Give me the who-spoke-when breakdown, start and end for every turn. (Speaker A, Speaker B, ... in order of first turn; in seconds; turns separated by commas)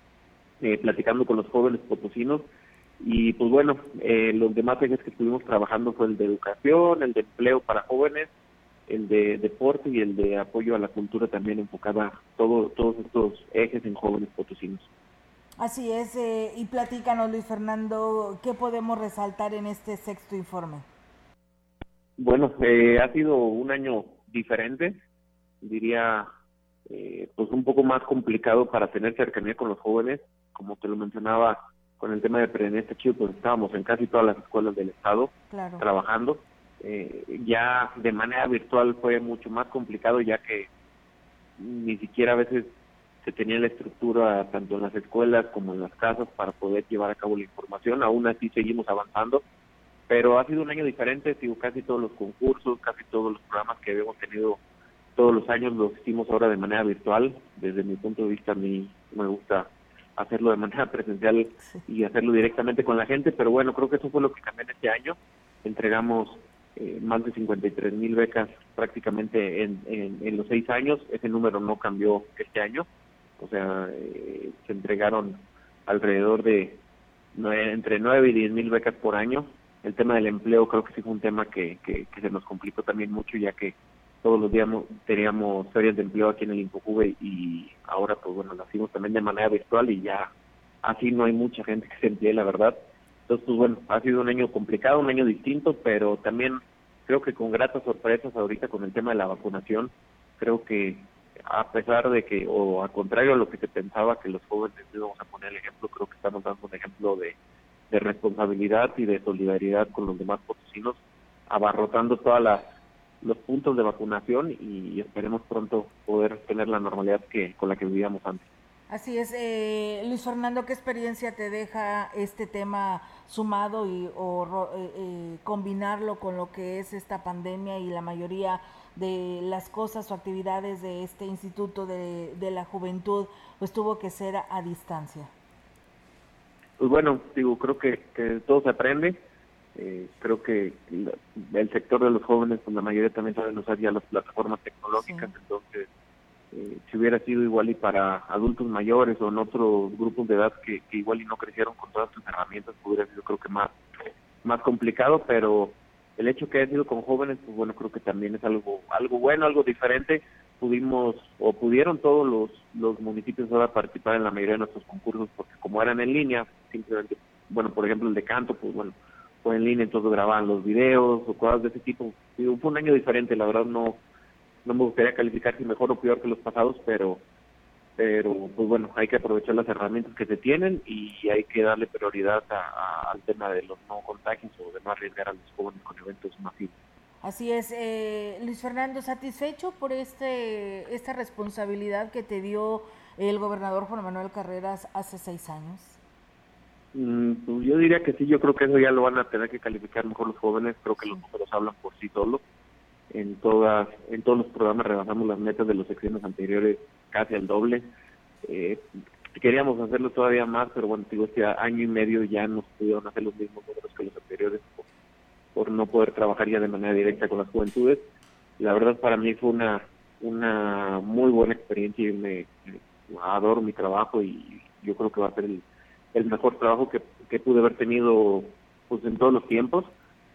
Speaker A: 0.6-2.5, Speaker A: 3.0-8.3, Speaker A: 8.9-14.9, Speaker B: 15.6-20.9, Speaker A: 22.2-25.0, Speaker A: 25.6-26.3, Speaker A: 26.9-40.7, Speaker B: 35.5-35.8, Speaker A: 41.6-49.4, Speaker A: 50.1-54.6, Speaker A: 55.1-72.9, Speaker A: 73.4-76.8, Speaker A: 77.3-90.3, Speaker A: 90.8-92.8, Speaker A: 93.3-107.3, Speaker A: 107.9-112.7, Speaker A: 113.2-118.5, Speaker B: 118.9-135.3, Speaker A: 136.8-139.2, Speaker A: 139.7-145.9, Speaker B: 144.9-145.3, Speaker A: 146.5-153.8, Speaker A: 154.4-174.0, Speaker A: 174.6-177.2, Speaker A: 178.0-186.7, Speaker B: 187.2-196.0, Speaker A: 196.9-202.4, Speaker A: 203.1-207.9, Speaker A: 208.4-214.9, Speaker A: 215.5-218.0, Speaker A: 218.6-229.9